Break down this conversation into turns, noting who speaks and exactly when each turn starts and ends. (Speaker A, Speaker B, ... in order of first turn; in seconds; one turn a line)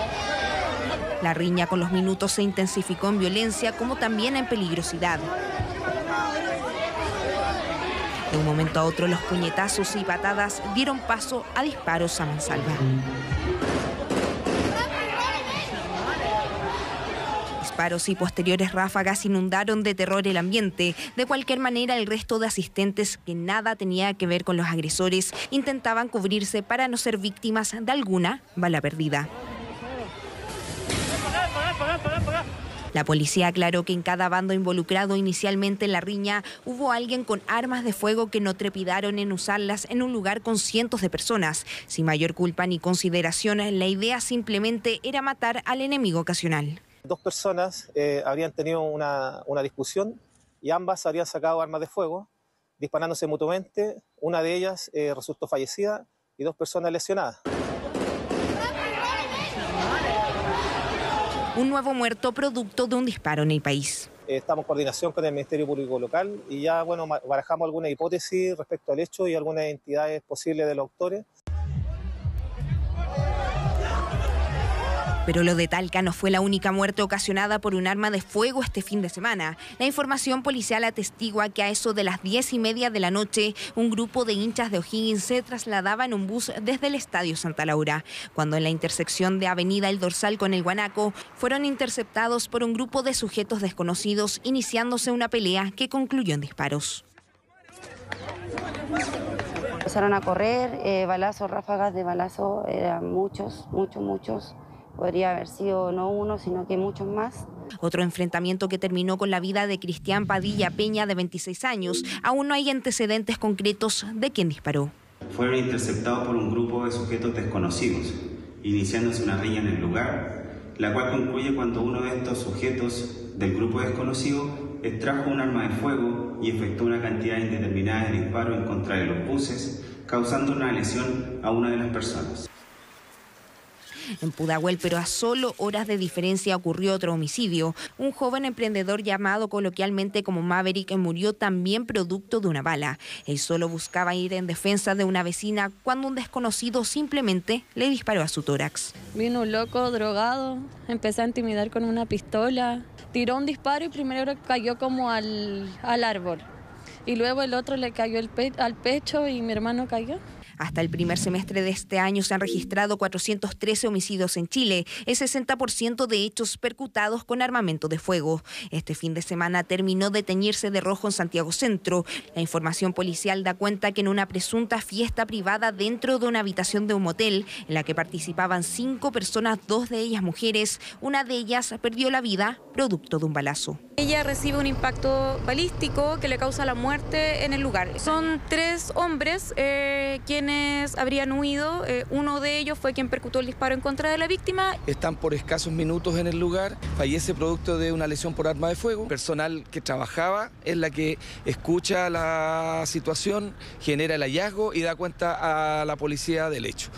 Speaker A: 1.2-5.3
Speaker A: 8.3-12.8
Speaker A: 17.6-29.3
Speaker A: 32.9-46.8
Speaker B: 47.1-52.3
Speaker B: 52.8-57.4
Speaker A: 61.5-64.1
Speaker B: 64.3-71.2
Speaker A: 75.3-97.0
Speaker C: 99.8-107.5
Speaker A: 107.8-114.9
Speaker D: 115.3-120.2
Speaker D: 120.8-132.5
Speaker A: 134.2-148.9
Speaker E: 149.1-156.4
Speaker E: 157.1-160.2
Speaker A: 160.6-183.8
Speaker F: 184.0-194.8
Speaker G: 194.9-206.9